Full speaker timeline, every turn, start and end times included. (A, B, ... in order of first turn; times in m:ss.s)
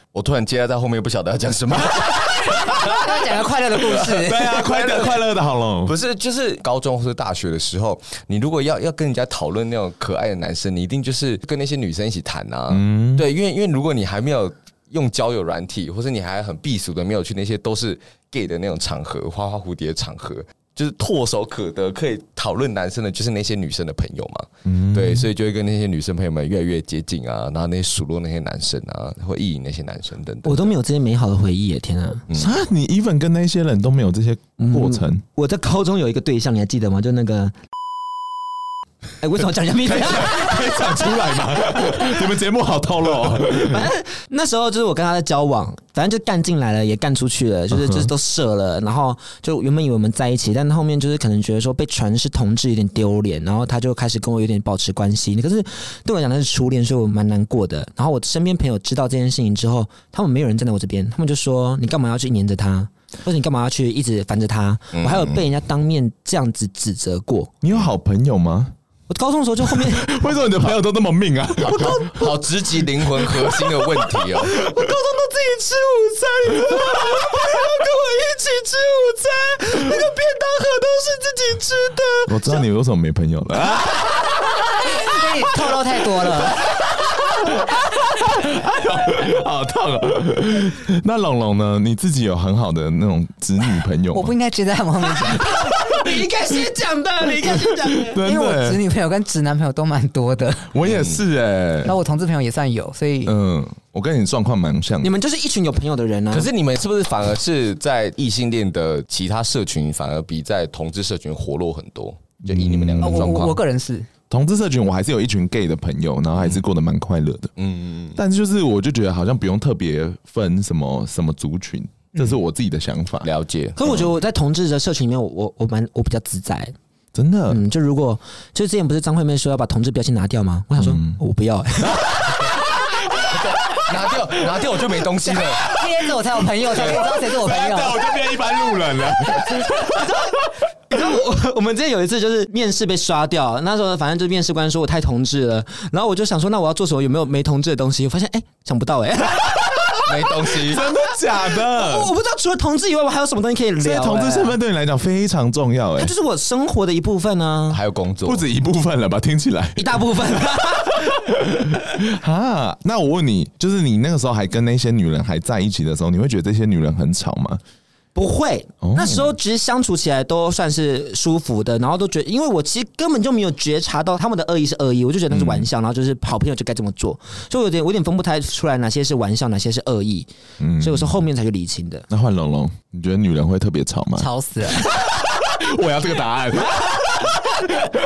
0:00.1-0:03.1 A
0:02.6-0:04.6 B
0:03.8-0:05.2 A
0:04.1-0:05.9 C
0:05.8-0:30.7 A
0:12.7-0:13.3 C
0:24.6-0:25.3 C
0:30.4-0:32.2 D
0:32.3-0:35.2 C
0:34.6-0:37.6 D
0:39.2-0:41.1 D
0:39.8-0:43.9 C
0:43.5-1:07.5 D
0:47.7-0:48.1 C
1:04.9-1:05.4 A
1:07.6-1:08.8 C
1:09.1-1:10.4 D
1:09.7-1:12.1 C
1:11.6-1:14.6 A
1:11.8-1:12.3 D
1:14.5-1:22.6 D
1:16.7-1:17.1 C
1:22.3-1:24.9 C
1:24.8-1:26.6 B
1:27.4-1:34.4 C
1:34.1-1:35.5 B
1:35.3-1:36.0 C
1:35.3-1:38.2 D
1:37.5-1:38.8 C
1:38.2-1:40.7 B
1:40.7-1:42.0 C
1:40.8-1:41.2 A
1:41.8-1:43.4 B
1:43.2-1:45.1 C
1:45.0-1:46.5 D
1:46.3-1:53.6 A
1:52.4-1:53.5 C
1:53.0-1:54.1 B
1:54.3-1:57.5 C
1:56.4-1:56.6 A
1:57.6-1:58.2 A
1:58.2-2:03.3 C
2:03.2-2:03.8 A
2:03.8-2:06.8 D
2:07.2-2:07.6 C
2:07.5-2:12.5 D
2:10.8-2:11.2 C
2:11.8-2:12.5 C
2:13.2-2:14.7 C
2:13.3-2:15.7 A
2:15.6-2:18.0 B
2:15.8-2:20.1 C
2:20.9-2:30.8 D
2:30.1-2:30.8 A
2:30.7-2:32.1 C
2:31.4-2:34.6 D
2:33.8-2:36.1 C
2:36.0-2:37.8 D
2:37.7-2:38.4 A
2:38.2-2:40.0 C
2:39.8-2:41.2 D
2:41.1-2:47.6 C
2:48.2-3:02.1 D
2:48.8-2:49.3 C
2:55.3-2:55.7 C
3:00.6-3:01.2 C
3:02.1-3:07.9 C
3:04.2-3:04.9 B